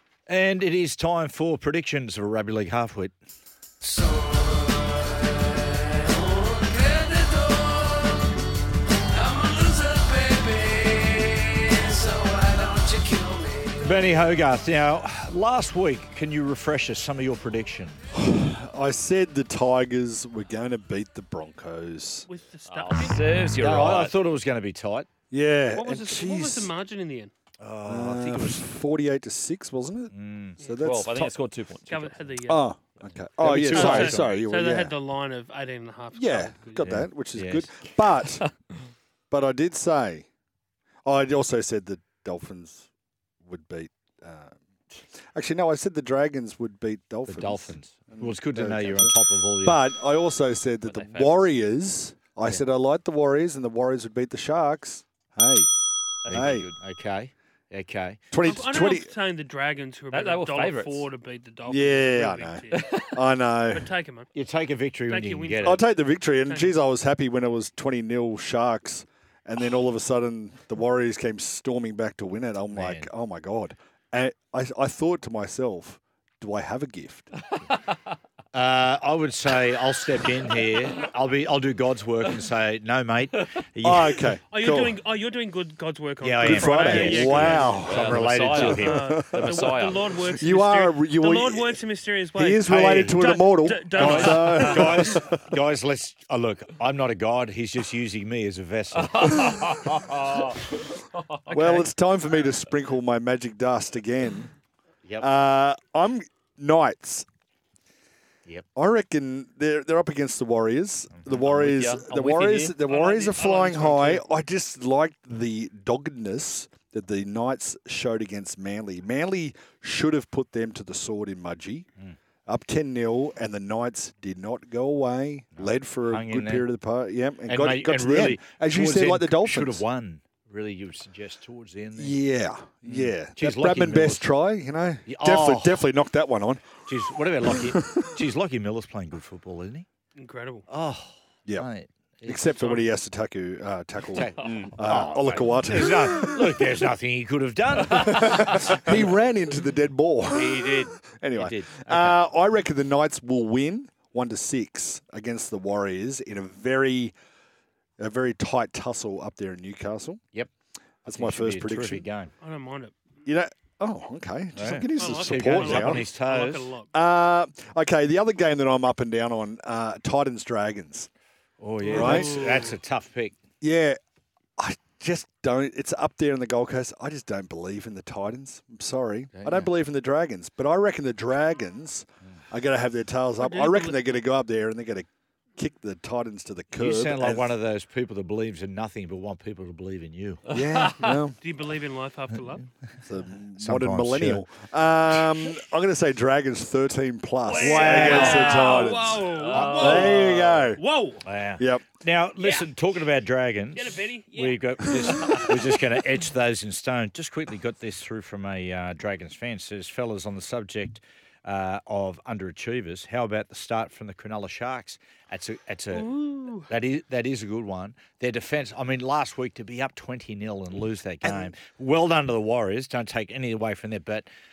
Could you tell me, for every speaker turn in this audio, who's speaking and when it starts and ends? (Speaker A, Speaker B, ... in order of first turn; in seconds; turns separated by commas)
Speaker A: 0.3-3.1, Speaker B: 9.7-10.7, Speaker B: 11.9-13.7, Speaker A: 13.8-18.0, Speaker C: 18.1-22.3, Speaker D: 22.3-23.3, Speaker B: 22.6-24.2, Speaker A: 23.5-25.1, Speaker C: 25.3-26.7, Speaker D: 25.7-27.3, Speaker A: 27.6-28.6, Speaker C: 27.9-31.4, Speaker A: 30.1-30.6, Speaker B: 30.8-32.2, Speaker D: 31.9-32.8, Speaker C: 32.5-35.0, Speaker B: 33.4-34.3, Speaker D: 33.5-37.0, Speaker C: 36.1-38.5, Speaker A: 36.8-38.0, Speaker C: 39.3-40.3, Speaker C: 41.0-42.9, Speaker C: 43.4-55.7, Speaker A: 47.3-49.8, Speaker B: 50.9-51.5, Speaker B: 56.2-56.8, Speaker C: 56.3-56.7, Speaker A: 56.3-58.3, Speaker C: 58.3-59.1, Speaker D: 58.4-62.9, Speaker B: 60.1-61.1, Speaker C: 61.7-63.9, Speaker B: 62.7-63.1, Speaker D: 63.7-64.3, Speaker A: 64.3-65.8, Speaker D: 65.1-65.8, Speaker C: 65.6-77.4, Speaker D: 66.5-66.7, Speaker A: 72.7-73.1, Speaker A: 78.5-84.1, Speaker C: 83.8-85.0, Speaker D: 84.5-87.9, Speaker A: 86.2-89.1, Speaker C: 86.4-88.0, Speaker B: 86.9-90.2, Speaker D: 88.5-95.2, Speaker C: 89.0-89.6, Speaker C: 90.3-91.8, Speaker C: 92.3-95.5, Speaker A: 94.0-99.4, Speaker B: 94.1-94.6, Speaker B: 99.0-100.6, Speaker B: 101.2-101.9, Speaker C: 101.5-104.5, Speaker C: 105.2-107.3, Speaker C: 108.8-121.9, Speaker B: 111.4-112.8, Speaker D: 112.9-114.2, Speaker C: 122.5-129.8, Speaker A: 125.6-126.7, Speaker A: 127.5-132.2, Speaker C: 132.0-136.8, Speaker A: 132.9-134.3, Speaker A: 135.1-135.9, Speaker A: 136.8-139.9, Speaker C: 137.5-138.0, Speaker D: 140.2-140.7, Speaker A: 140.7-142.8, Speaker C: 142.3-146.6, Speaker A: 144.1-149.0, Speaker B: 144.4-144.7, Speaker C: 147.9-157.1, Speaker A: 150.3-152.2, Speaker C: 158.0-160.2, Speaker C: 161.1-162.1, Speaker A: 161.1-162.3, Speaker D: 162.4-162.9, Speaker C: 163.3-166.1, Speaker A: 164.6-166.7, Speaker D: 164.9-166.9, Speaker C: 166.9-171.1, Speaker A: 171.6-173.3, Speaker D: 171.8-172.8, Speaker C: 171.9-172.4, Speaker C: 173.6-174.0, Speaker C: 174.6-187.6, Speaker A: 179.4-179.7, Speaker D: 183.4-184.0, Speaker A: 186.8-190.5, Speaker C: 190.5-191.4, Speaker D: 190.9-192.7, Speaker C: 193.0-200.8, Speaker A: 193.6-194.4, Speaker D: 197.4-201.2, Speaker A: 197.6-198.8, Speaker B: 197.9-200.7, Speaker A: 199.5-200.2, Speaker A: 201.2-216.1, Speaker C: 201.6-201.9, Speaker D: 202.4-202.7, Speaker D: 203.7-206.0, Speaker D: 215.9-216.7, Speaker A: 216.7-224.3, Speaker C: 221.2-221.5